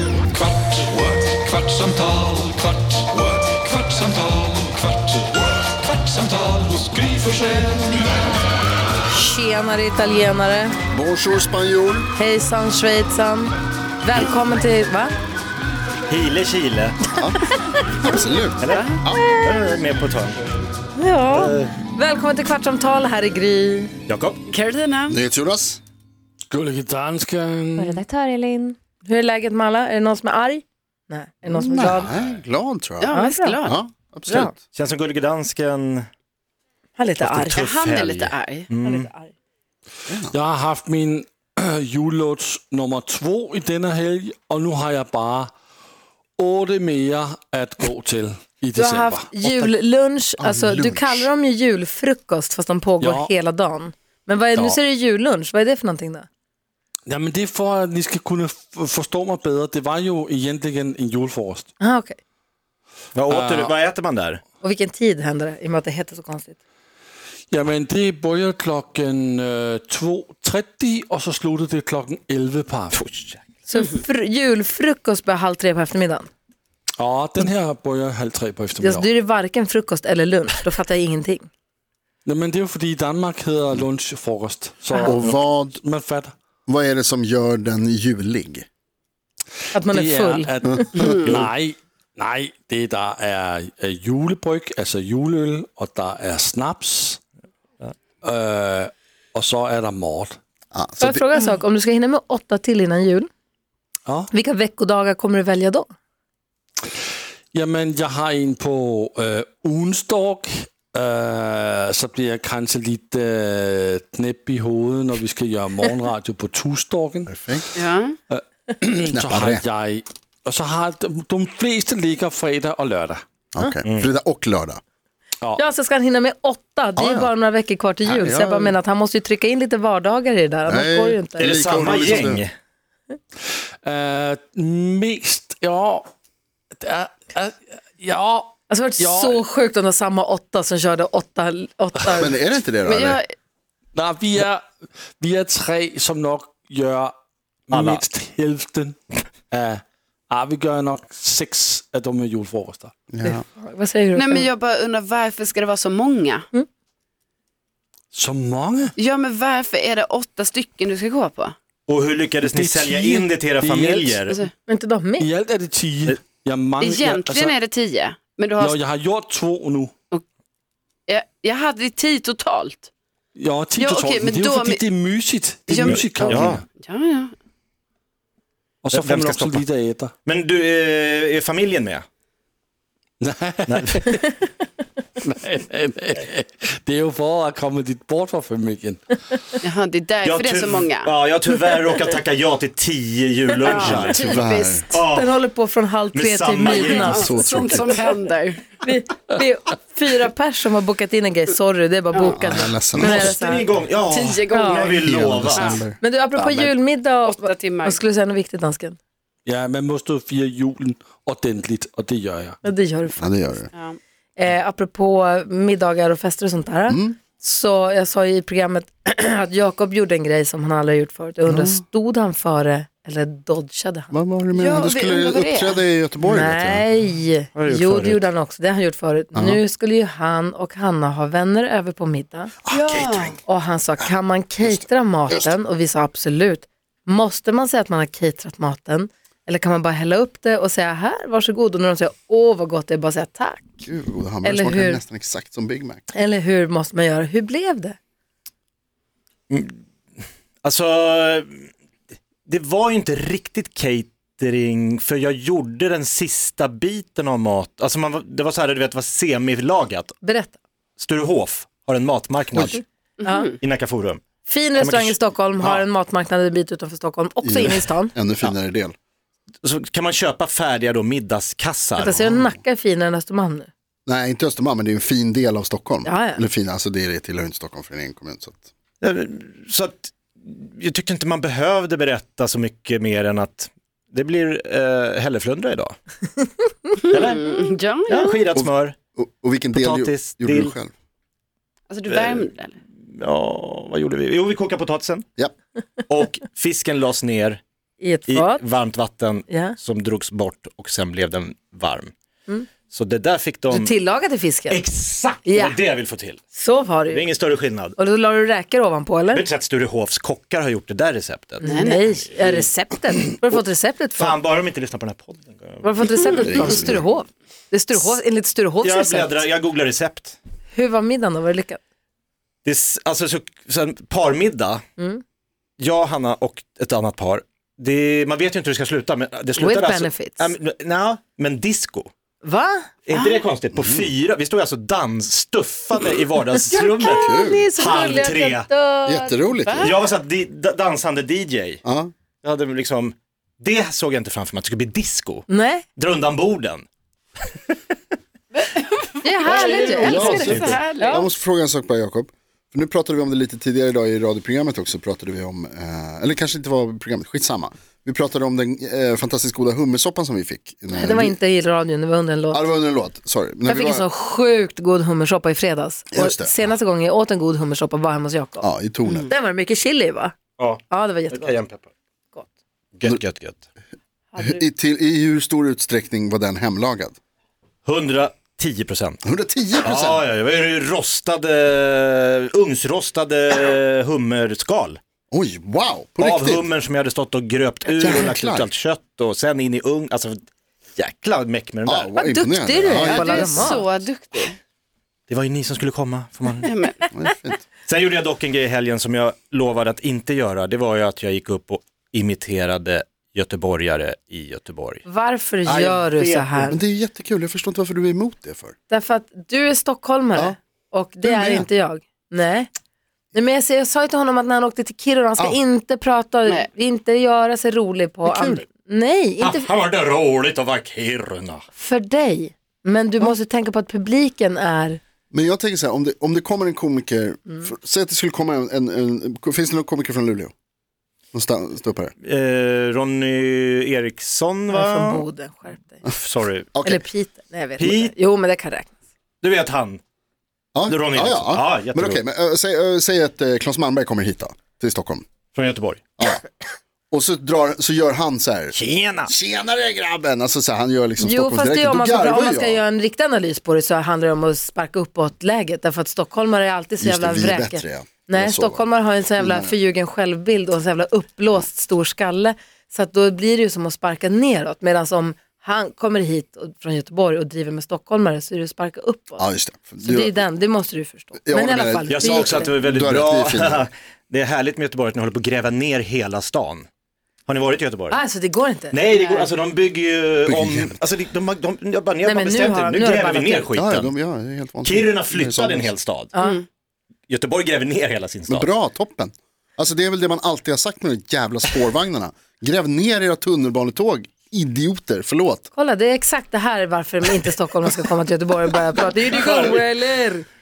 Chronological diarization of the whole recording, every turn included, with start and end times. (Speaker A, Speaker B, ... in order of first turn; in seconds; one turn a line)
Speaker A: 0.8-2.2
Speaker A: 3.1-4.0
Speaker B: 9.1-10.7
Speaker C: 10.9-12.1
Speaker B: 12.1-13.5
Speaker B: 14.0-15.1
Speaker D: 16.1-17.0
Speaker C: 18.0-19.3
Speaker D: 18.6-20.4
Speaker E: 18.7-19.0
Speaker B: 19.1-19.6
Speaker B: 20.9-23.9
Speaker D: 21.3-21.7
Speaker D: 24.1-24.4
Speaker E: 24.5-25.2
Speaker C: 25.1-25.8
Speaker F: 26.5-28.0
Speaker B: 27.8-32.1
Speaker C: 31.4-34.5
Speaker E: 33.0-33.8
Speaker B: 33.1-33.6
Speaker D: 34.2-36.1
Speaker B: 37.0-37.6
Speaker D: 37.2-39.1
Speaker E: 37.6-38.7
Speaker B: 38.8-39.3
Speaker C: 40.1-40.3
Speaker F: 40.3-45.5
Speaker F: 46.4-49.3
Speaker B: 48.8-56.3
Speaker D: 49.4-49.7
Speaker C: 50.4-51.3
Speaker F: 53.0-53.3
Speaker F: 57.0-61.7
Speaker B: 61.8-62.2
Speaker D: 63.1-64.4
Speaker F: 63.3-63.7
Speaker B: 64.6-66.6
Speaker F: 67.5-73.0
Speaker D: 72.9-73.4
Speaker B: 73.7-76.3
Speaker F: 76.9-79.1
Speaker B: 78.8-81.5
Speaker F: 82.2-86.3
Speaker C: 85.0-85.8
Speaker C: 86.7-88.6
Speaker B: 89.7-90.5
Speaker F: 89.8-97.2
Speaker F: 98.2-100.4
Speaker C: 100.7-101.2
Speaker B: 101.0-103.3
Speaker B: 104.3-105.9
Speaker F: 106.8-117.3
Speaker C: 117.3-117.7
Speaker E: 117.7-118.2
Speaker F: 118.3-123.2
Speaker C: 119.1-119.6
Speaker C: 123.5-124.8
Speaker D: 123.8-124.1
Speaker B: 125.6-131.6
Speaker C: 127.0-127.3
Speaker C: 128.0-128.8
Speaker C: 130.7-132.4
Speaker D: 131.4-132.5
Speaker F: 133.4-136.1
Speaker F: 136.7-139.4
Speaker B: 138.7-142.3
Speaker C: 142.2-143.2
Speaker E: 142.8-143.3
Speaker F: 143.9-147.1
Speaker F: 147.7-153.0
Speaker D: 147.7-148.0
Speaker C: 153.1-153.4
Speaker B: 153.2-154.5
Speaker E: 154.1-156.4
Speaker F: 158.1-158.9
Speaker E: 159.0-161.6
Speaker D: 161.9-164.3
Speaker F: 162.4-164.3
Speaker B: 164.7-165.3
Speaker F: 165.2-167.5
Speaker E: 166.8-168.8
Speaker F: 168.6-169.9
Speaker E: 171.1-172.9
Speaker F: 173.3-176.6
Speaker E: 173.7-174.8
Speaker E: 175.7-177.3
Speaker D: 176.3-176.6
Speaker F: 178.8-180.1
Speaker D: 178.9-179.6
Speaker D: 180.2-182.0
Speaker F: 183.2-184.4
Speaker D: 183.7-184.1
Speaker F: 185.2-189.6
Speaker E: 189.6-191.1
Speaker D: 190.2-194.3
Speaker E: 193.6-195.0
Speaker C: 193.8-194.8
Speaker D: 194.9-195.4
Speaker B: 195.1-198.1
Speaker D: 196.1-197.3
Speaker E: 196.7-198.7
Speaker C: 197.1-198.0
Speaker B: 198.8-203.7
Speaker E: 202.1-202.4
Speaker C: 202.3-203.3
Speaker D: 203.0-205.8
Speaker E: 204.1-204.9
Speaker B: 204.5-204.9
Speaker C: 205.0-206.7
Speaker E: 205.5-205.8
Speaker B: 206.0-209.0
Speaker E: 207.2-208.0
Speaker F: 209.4-212.6
Speaker B: 212.6-213.6
Speaker C: 213.2-213.7
Speaker E: 213.7-214.0
Speaker B: 214.3-224.1
Speaker C: 216.9-217.2
Speaker C: 221.5-221.8
Speaker C: 224.1-226.8
Speaker E: 224.5-225.8
Speaker B: 226.2-232.5
Speaker D: 227.6-228.2
Speaker C: 229.3-229.6
Speaker E: 232.7-233.4
Speaker B: 233.4-243.8
Speaker C: 234.6-235.5
Speaker C: 243.8-246.0
Speaker B: 244.4-245.0
Speaker B: 246.1-248.0
Speaker D: 249.5-249.8
Speaker D: 250.6-251.7
Speaker D: 252.4-260.1
Speaker B: 260.2-260.6
Speaker D: 261.0-262.8
Speaker E: 263.2-263.6
Speaker B: 263.2-263.5
Speaker D: 263.6-264.2
Speaker B: 264.4-268.1
Speaker D: 264.8-265.8
Speaker C: 267.4-268.9
Speaker D: 269.6-272.2
Speaker B: 272.0-273.7
Speaker C: 272.1-272.6
Speaker C: 274.1-278.6
Speaker B: 276.0-276.4
Speaker D: 279.0-285.9
Speaker E: 287.0-288.4
Speaker D: 287.1-287.5
Speaker D: 288.0-288.9
Speaker C: 288.5-290.9
Speaker D: 289.7-290.7
Speaker E: 291.9-292.8
Speaker D: 292.1-292.5
Speaker D: 293.0-295.2
Speaker D: 296.1-297.6
Speaker B: 298.0-298.6
Speaker D: 298.3-302.1
Speaker B: 299.5-299.8
Speaker D: 302.9-303.9
Speaker B: 303.7-304.8
Speaker D: 304.7-306.4
Speaker B: 305.4-305.8
Speaker B: 306.5-307.3
Speaker D: 307.1-308.0
Speaker B: 308.0-309.4
Speaker D: 309.3-311.7
Speaker B: 311.6-314.4
Speaker E: 311.6-312.0
Speaker D: 314.2-316.5
Speaker B: 315.8-319.5
Speaker C: 316.4-317.0
Speaker D: 318.8-320.4
Speaker B: 320.7-321.8
Speaker D: 322.6-324.8
Speaker B: 325.0-325.2
Speaker D: 325.8-332.1
Speaker B: 329.6-330.5
Speaker B: 332.4-333.4
Speaker D: 333.1-338.7
Speaker C: 333.7-334.1
Speaker B: 336.6-339.4
Speaker C: 337.0-337.7
Speaker C: 339.1-339.9
Speaker E: 339.6-339.9
Speaker D: 339.8-341.8
Speaker C: 341.8-342.1
Speaker D: 342.4-346.8
Speaker B: 345.5-345.9
Speaker E: 348.5-351.2
Speaker B: 349.2-351.3
Speaker C: 349.5-361.4
Speaker D: 350.3-350.7
Speaker B: 360.9-362.7
Speaker C: 362.5-364.1
Speaker B: 363.6-368.7
Speaker C: 366.1-366.6
Speaker C: 368.6-369.3
Speaker B: 369.2-370.4
Speaker D: 370.6-371.9
Speaker B: 370.9-371.6
Speaker D: 373.0-373.6
Speaker B: 374.3-374.6
Speaker C: 374.4-377.2
Speaker D: 377.9-379.2
Speaker C: 379.2-380.2
Speaker D: 379.8-385.0
Speaker C: 385.3-386.7
Speaker D: 386.2-390.4
Speaker C: 388.0-388.7
Speaker D: 390.9-392.1
Speaker C: 391.8-393.8
Speaker B: 392.1-393.9
Speaker E: 393.0-394.5
Speaker D: 395.3-396.7
Speaker E: 396.6-397.0
Speaker C: 397.1-397.6
Speaker D: 397.9-405.0
Speaker B: 405.1-406.8
Speaker D: 405.6-406.7
Speaker C: 406.7-408.7
Speaker B: 408.9-412.7
Speaker C: 411.2-411.7
Speaker B: 413.3-419.7
Speaker C: 418.3-418.6
Speaker D: 419.4-421.6
Speaker B: 421.8-425.0
Speaker C: 425.3-430.5
Speaker C: 431.3-432.1
Speaker D: 432.2-435.2
Speaker B: 434.7-436.0
Speaker D: 436.2-436.7
Speaker C: 436.7-437.0
Speaker B: 436.8-438.9
Speaker D: 437.8-438.1
Speaker D: 439.4-440.0
Speaker C: 440.7-445.2
Speaker D: 440.9-442.2
Speaker D: 445.5-446.0
Speaker C: 446.2-446.4
Speaker C: 447.1-448.8
Speaker D: 448.7-449.3
Speaker C: 449.3-452.8
Speaker B: 451.2-469.4
Speaker C: 457.0-459.7
Speaker C: 469.4-470.4
Speaker B: 470.0-472.7
Speaker C: 471.4-473.9
Speaker D: 472.1-476.9
Speaker D: 477.5-478.2
Speaker B: 478.1-479.0
Speaker D: 478.9-484.1
Speaker E: 479.1-479.5
Speaker C: 480.4-481.0
Speaker B: 482.2-483.7
Speaker C: 483.8-485.9
Speaker D: 484.8-486.3
Speaker B: 486.3-486.6
Speaker D: 487.3-488.7
Speaker C: 488.5-495.7
Speaker B: 495.7-500.4
Speaker D: 499.2-499.8